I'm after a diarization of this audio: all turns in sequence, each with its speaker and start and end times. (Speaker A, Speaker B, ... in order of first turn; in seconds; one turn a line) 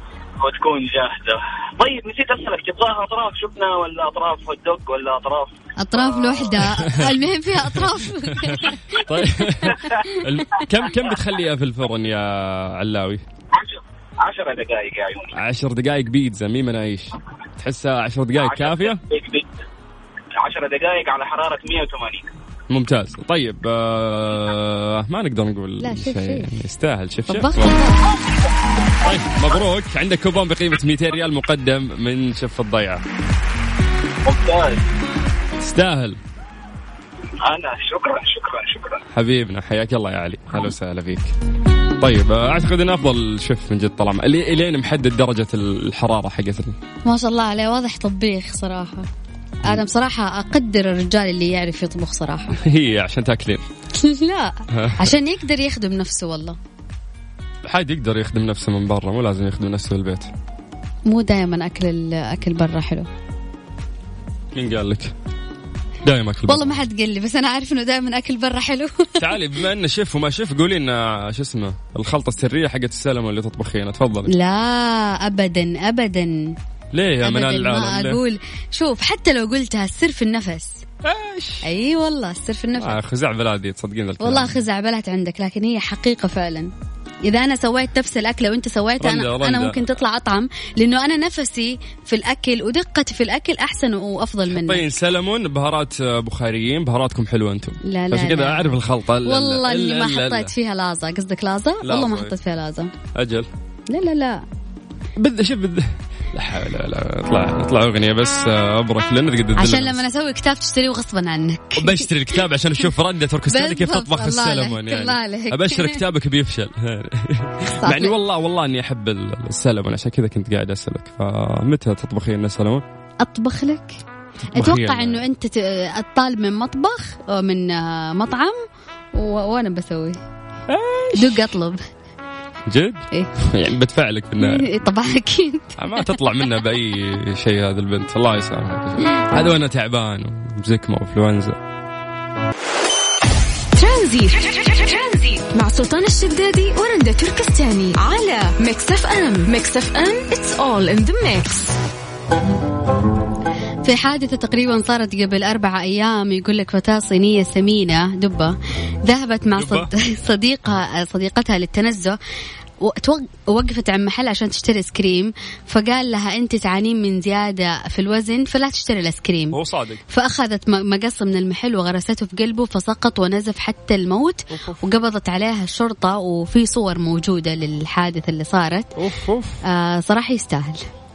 Speaker A: 0.4-6.7
Speaker B: 5.8-9.0
Speaker C: 6.8-13.2
Speaker B: 9.7-10.2
Speaker A: 13.5-15.4
Speaker C: 15.3-19.0
Speaker A: 18.4-19.6
Speaker A: 20.3-22.3
Speaker C: 22.7-27.8
Speaker B: 25.8-26.6
Speaker B: 27.3-28.0
Speaker A: 28.1-28.4
Speaker C: 29.0-33.0
Speaker A: 34.2-34.9
Speaker C: 35.6-36.2
Speaker A: 37.4-39.0
Speaker C: 39.1-41.3
Speaker C: 42.0-46.8
Speaker B: 47.1-49.1
Speaker B: 49.6-52.6
Speaker C: 52.6-53.6
Speaker B: 53.9-56.6
Speaker C: 54.7-55.2
Speaker C: 57.6-60.3
Speaker B: 61.1-63.1
Speaker C: 64.5-65.1
Speaker C: 66.0-66.9
Speaker B: 66.5-69.3
Speaker C: 69.2-74.3
Speaker B: 74.3-76.5
Speaker C: 76.9-78.2
Speaker B: 77.2-80.8
Speaker C: 81.0-81.7
Speaker B: 81.6-83.0
Speaker C: 82.8-84.6
Speaker B: 84.2-86.7
Speaker B: 87.2-94.9
Speaker C: 89.0-89.8
Speaker C: 94.5-100.5
Speaker B: 97.8-102.9
Speaker C: 101.8-102.3
Speaker C: 103.1-103.5
Speaker B: 103.9-104.4
Speaker C: 105.2-110.0
Speaker B: 109.6-112.1
Speaker C: 111.8-122.8
Speaker B: 113.5-116.0
Speaker B: 117.8-118.2
Speaker B: 123.2-124.0
Speaker B: 124.5-128.6
Speaker C: 124.5-125.2
Speaker B: 129.1-130.2
Speaker C: 130.7-131.5
Speaker B: 131.2-131.8
Speaker C: 132.7-134.7
Speaker B: 134.4-136.1
Speaker C: 135.8-141.6
Speaker D: 143.7-151.8
Speaker B: 153.8-162.2
Speaker C: 159.6-159.9
Speaker B: 162.8-169.6
Speaker C: 169.5-170.0
Speaker B: 170.1-178.9
Speaker C: 174.5-174.8
Speaker C: 179.0-179.6
Speaker B: 179.6-180.9